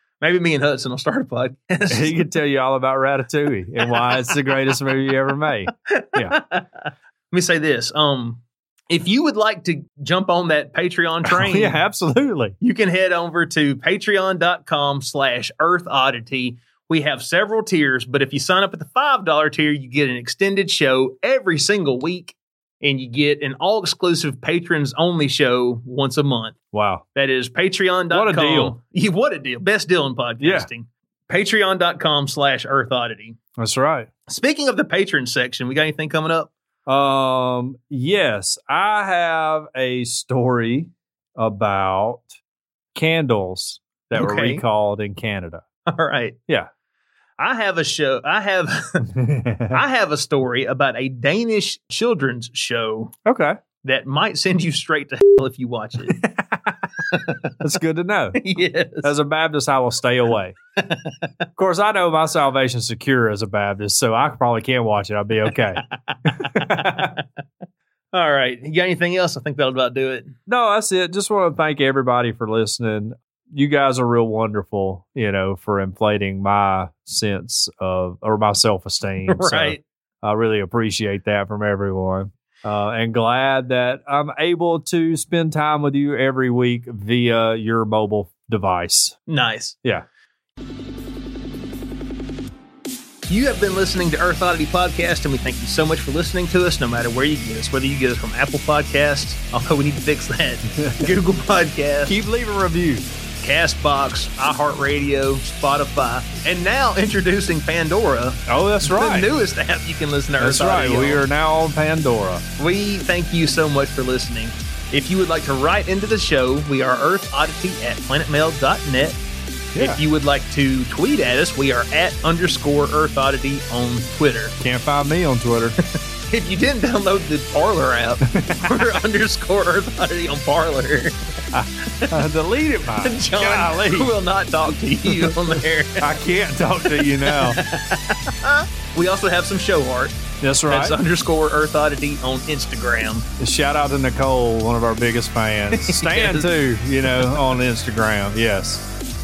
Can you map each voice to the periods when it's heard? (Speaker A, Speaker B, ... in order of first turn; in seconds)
Speaker A: 0.2-2.3, 3.8-4.8, 5.9-6.7, 7.3-11.8, 12.6-26.6, 27.1-33.4, 34.3-36.5, 44.1-44.6, 45.9-46.4, 47.4-49.1, 49.7-53.1, 53.8-56.2, 57.1-57.4, 58.4-59.1, 60.8-61.3, 65.9-67.2, 68.1-70.3, 79.3-79.8, 89.3-89.8, 93.3-102.1, 103.4-111.2, 112.6-119.2, 119.8-124.5, 126.3-132.2, 133.0-136.1, 136.9-143.3, 145.7-146.5
Speaker B: 1.9-6.4, 11.2-12.6, 26.7-27.0, 28.1-28.8, 30.4-30.7, 33.6-34.1, 36.9-42.3, 42.9-45.6, 49.1-49.8, 53.2-53.6, 56.1-56.8, 57.6-58.4, 59.0-60.6, 61.6-67.1, 70.5-89.2, 100.7-101.1, 102.1-103.1, 108.5-109.3, 110.4-112.4, 119.7-120.0, 124.6-125.8, 128.3-129.0, 132.1-134.1, 135.1-137.6, 140.4-141.0, 143.4-148.8